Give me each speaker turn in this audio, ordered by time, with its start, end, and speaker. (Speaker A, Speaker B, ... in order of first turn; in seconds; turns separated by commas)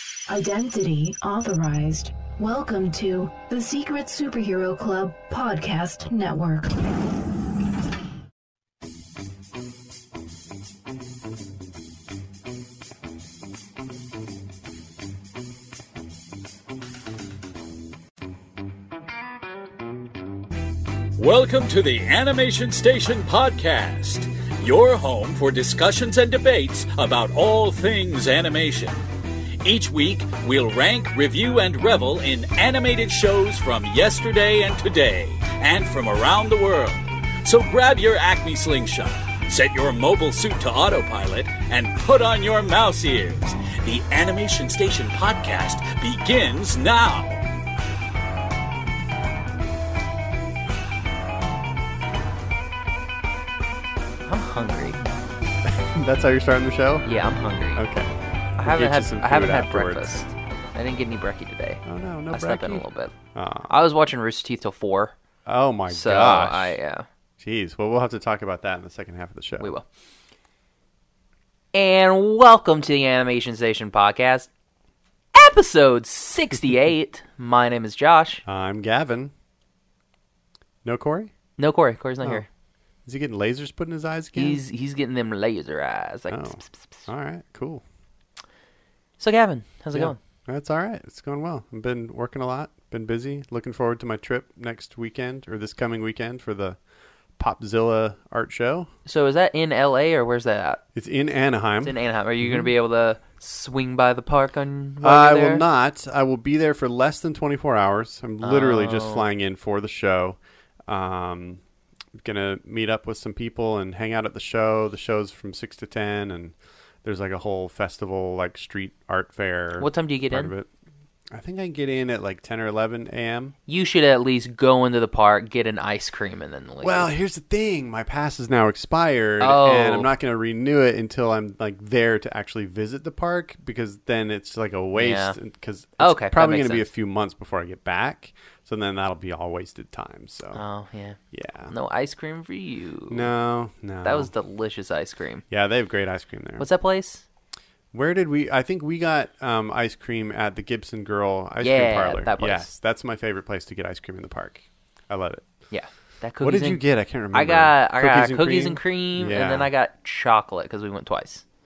Speaker A: 0.3-6.8, Speaker B: 21.2-29.0, Speaker B: 29.6-47.4, Speaker C: 54.3-55.0, Speaker D: 55.7-57.1, Speaker C: 57.0-57.8, Speaker D: 57.8-60.2, Speaker C: 58.6-63.1, Speaker D: 61.8-63.7, Speaker C: 63.7-65.2, Speaker D: 65.5-66.8, Speaker C: 65.9-67.1, Speaker D: 67.4-69.7, Speaker C: 69.6-69.9, Speaker C: 71.7-74.5, Speaker C: 75.3-78.4, Speaker D: 78.5-79.3, Speaker D: 80.8-81.3, Speaker C: 81.6-82.5, Speaker D: 83.1-84.6, Speaker C: 84.3-87.1, Speaker D: 86.3-87.8, Speaker C: 89.2-90.2, Speaker D: 89.9-96.8, Speaker D: 97.4-98.9, Speaker C: 99.1-100.8, Speaker D: 100.9-102.7, Speaker C: 101.8-105.6, Speaker D: 105.0-111.6, Speaker C: 108.4-109.3, Speaker D: 112.2-120.7, Speaker C: 119.8-120.5, Speaker D: 121.3-123.5, Speaker C: 123.7-127.1, Speaker D: 126.8-140.6, Speaker C: 129.4-130.1, Speaker C: 135.0-135.4, Speaker C: 136.0-136.9, Speaker C: 140.5-141.2, Speaker D: 141.3-141.7, Speaker C: 141.7-143.3, Speaker D: 143.1-144.3, Speaker C: 144.0-145.4, Speaker D: 145.5-146.7, Speaker C: 146.6-147.2, Speaker D: 147.9-155.5, Speaker C: 151.6-152.7, Speaker C: 155.7-161.4, Speaker D: 156.4-159.7